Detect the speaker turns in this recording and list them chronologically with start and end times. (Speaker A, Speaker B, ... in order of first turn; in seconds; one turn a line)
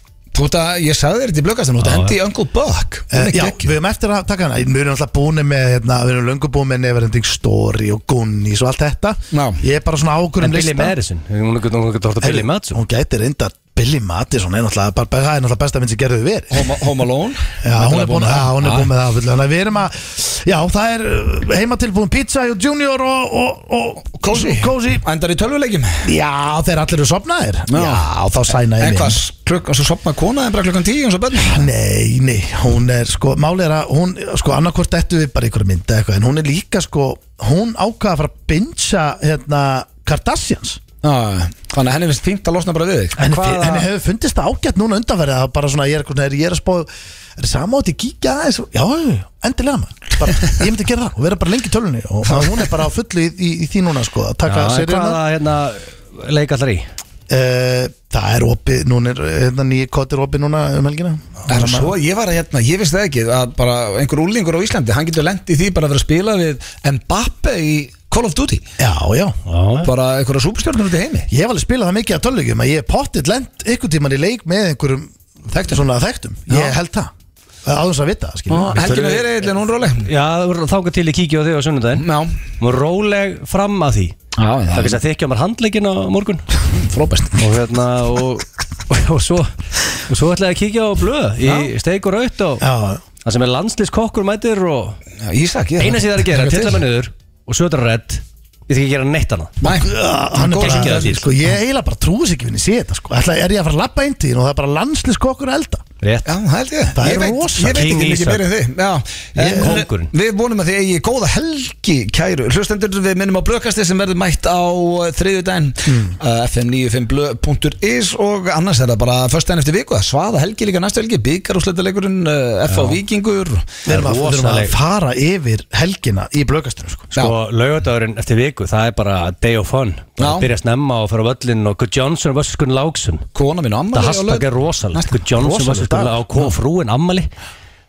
Speaker A: 0.3-3.7
Speaker B: 1.8-2.1
Speaker C: 3.1-10.9
Speaker A: 9.3-9.6
Speaker B: 10.4-12.8
Speaker C: 12.2-16.8
Speaker A: 16.5-18.9
Speaker C: 17.6-25.1
Speaker A: 24.1-26.1
Speaker C: 26.0-29.2
Speaker A: 27.7-31.7
Speaker C: 31.4-40.8
Speaker A: 41.0-43.9
Speaker C: 43.2-55.2
Speaker B: 54.5-56.9
Speaker C: 57.3-61.9
Speaker A: 61.5-68.6
Speaker C: 68.8-69.4
Speaker B: 69.5-69.9
Speaker A: 69.8-71.3
Speaker C: 71.3-77.1
Speaker A: 75.5-75.8
Speaker A: 76.5-76.8
Speaker C: 77.6-79.2
Speaker A: 78.5-80.1
Speaker B: 78.9-79.2
Speaker B: 80.0-84.2
Speaker A: 82.0-82.4
Speaker A: 84.3-85.0
Speaker B: 84.7-86.5
Speaker A: 86.7-87.4
Speaker B: 87.3-89.5
Speaker B: 90.1-92.7
Speaker A: 91.4-91.7
Speaker C: 92.6-93.0
Speaker B: 93.2-95.0
Speaker A: 95.2-96.8
Speaker B: 95.8-99.6
Speaker A: 99.6-101.2
Speaker C: 99.6-105.8
Speaker B: 100.6-101.2
Speaker B: 106.0-106.3
Speaker A: 106.2-123.7
Speaker C: 106.9-107.9
Speaker B: 107.7-108.5
Speaker C: 109.4-109.8
Speaker B: 109.4-110.1
Speaker C: 115.8-116.2
Speaker B: 123.8-124.7
Speaker C: 123.9-127.1
Speaker B: 127.2-133.2
Speaker A: 130.2-130.5
Speaker A: 133.3-135.2
Speaker B: 133.9-137.3
Speaker C: 135.4-136.5